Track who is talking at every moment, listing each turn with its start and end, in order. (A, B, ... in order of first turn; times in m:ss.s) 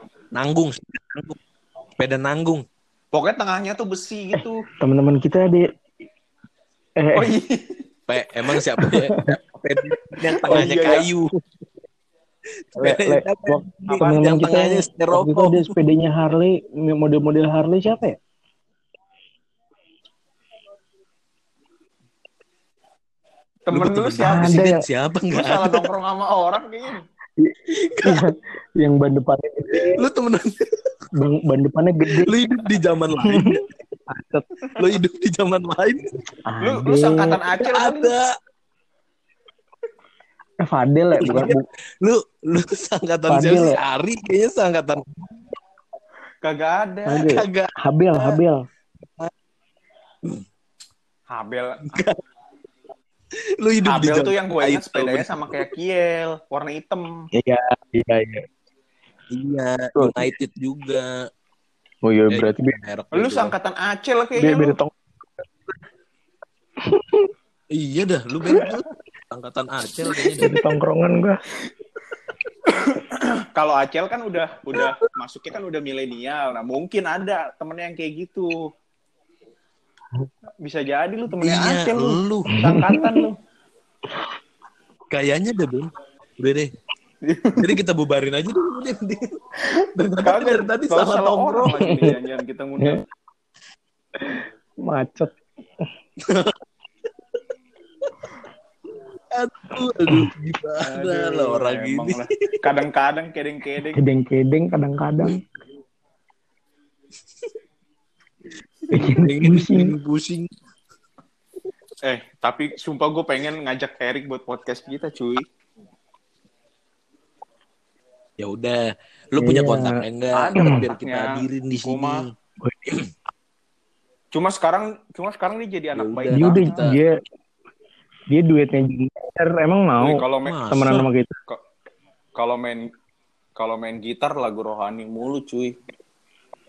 0:00.4-0:01.4 A
0:02.0-0:02.6 A
0:03.1-0:04.6 B
0:04.8-0:05.7 C
0:07.0-0:07.3 C
0:07.2-0:07.8 B
0:08.1-0:11.3 A
0:08.8-0:09.3 C
0:10.5-0:11.1 B
0:12.8-0:15.8 A
0:12.8-0:18.2 C
0:23.7-0:24.6 B
0:23.7-0:25.9 A
0:24.2-0:24.8 C
0:25.3-0:27.0 B
0:27.4-0:30.0 C
0:27.7-0:28.3 A
0:29.7-0:31.0 A
0:31.2-0:32.3 C
0:32.1-0:33.6 A
0:33.2-0:33.5 C
0:34.1-0:34.5 C
0:34.8-0:36.2 A
0:36.5-0:37.4 C
0:36.6-0:38.1 B
0:37.6-0:38.3 A
0:40.6-0:41.6 C
0:41.2-0:45.5 A
0:43.3-0:43.8 C
0:46.4-0:47.3 B
0:47.1-0:48.6 C
0:47.2-0:48.4 A
0:49.1-0:49.3 A
0:51.3-0:52.1 B
0:51.9-0:52.2 A
0:53.6-0:55.7 A
0:53.9-0:57.1 B
0:57.4-0:58.4 C
0:59.3-1:01.1 A
1:00.0-1:00.3 C
1:02.1-1:02.8 C
1:02.3-1:03.5 A
1:03.1-1:04.8 B
1:04.4-1:04.9 C
1:06.9-1:07.3 C
1:07.7-1:10.6 A
1:10.4-1:11.4 C
1:12.7-1:18.5 B
1:20.6-1:23.4 B
1:21.4-1:22.5 A
1:22.5-1:23.2 C
1:25.1-1:26.7 A
1:27.2-1:27.8 B
1:27.6-1:32.1 A
1:30.2-1:33.0 B
1:31.7-1:32.1 C
1:34.2-1:35.4 C
1:36.2-1:36.6 A
1:39.3-1:42.7 A
1:40.8-1:44.0 B
1:43.9-1:45.4 C
1:48.9-1:50.5 A
1:48.9-1:50.0 C
1:52.0-1:55.4 B
1:58.4-1:58.8 A
1:59.4-2:02.3 A
1:59.4-2:00.0 C
2:00.3-2:02.2 B
2:02.7-2:02.9 C
2:04.3-2:06.9 B
2:06.0-2:07.0 A
2:06.4-2:07.2 C
2:08.3-2:11.4 C
2:10.0-2:10.6 B
2:10.4-2:11.0 A
2:12.4-2:12.8 B
2:13.6-2:15.8 B